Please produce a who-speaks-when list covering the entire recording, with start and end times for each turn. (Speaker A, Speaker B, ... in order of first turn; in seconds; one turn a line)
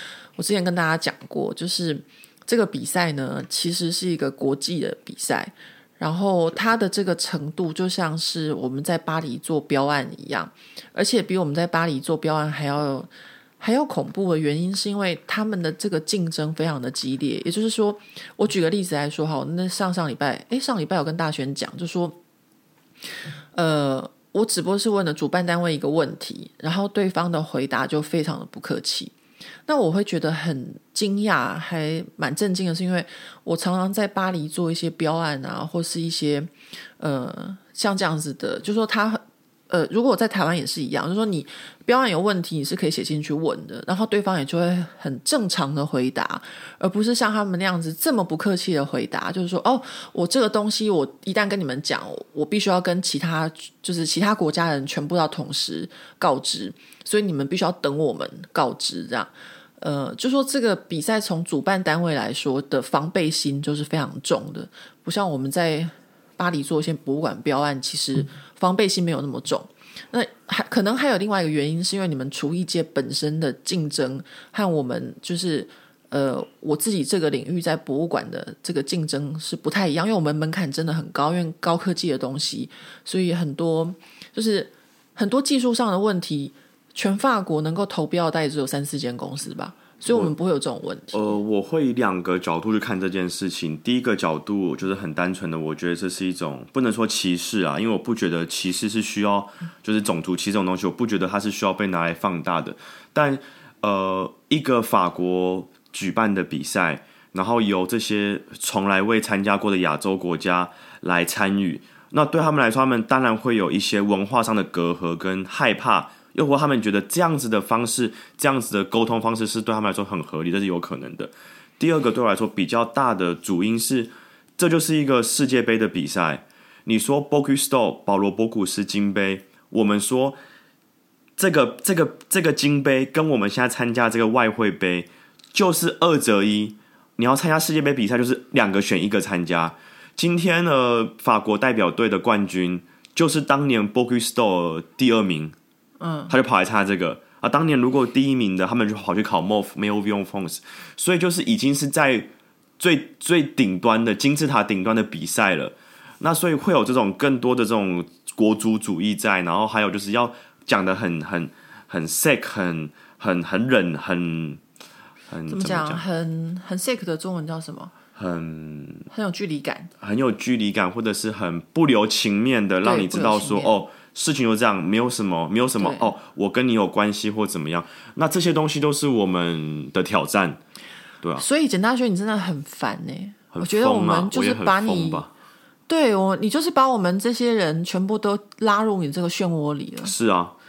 Speaker A: 0.4-13.1
Speaker A: 13.6-22.2
Speaker A: 23.6-29.1
Speaker A: 29.7-91.4
Speaker B: 91.1-130.4
Speaker B: 131.4-145.6
Speaker A: 146.0-146.3
Speaker B: 146.3-164.6
Speaker B: 165.3-166.0
Speaker A: 165.5-167.9
Speaker B: 168.2-169.1
Speaker A: 169.1-169.9
Speaker B: 170.0-180.6
Speaker A: 172.8-173.8
Speaker A: 175.8-176.1
Speaker A: 181.4-185.2
Speaker B: 183.5-185.3
Speaker A: 185.9-190.1
Speaker B: 190.0-190.6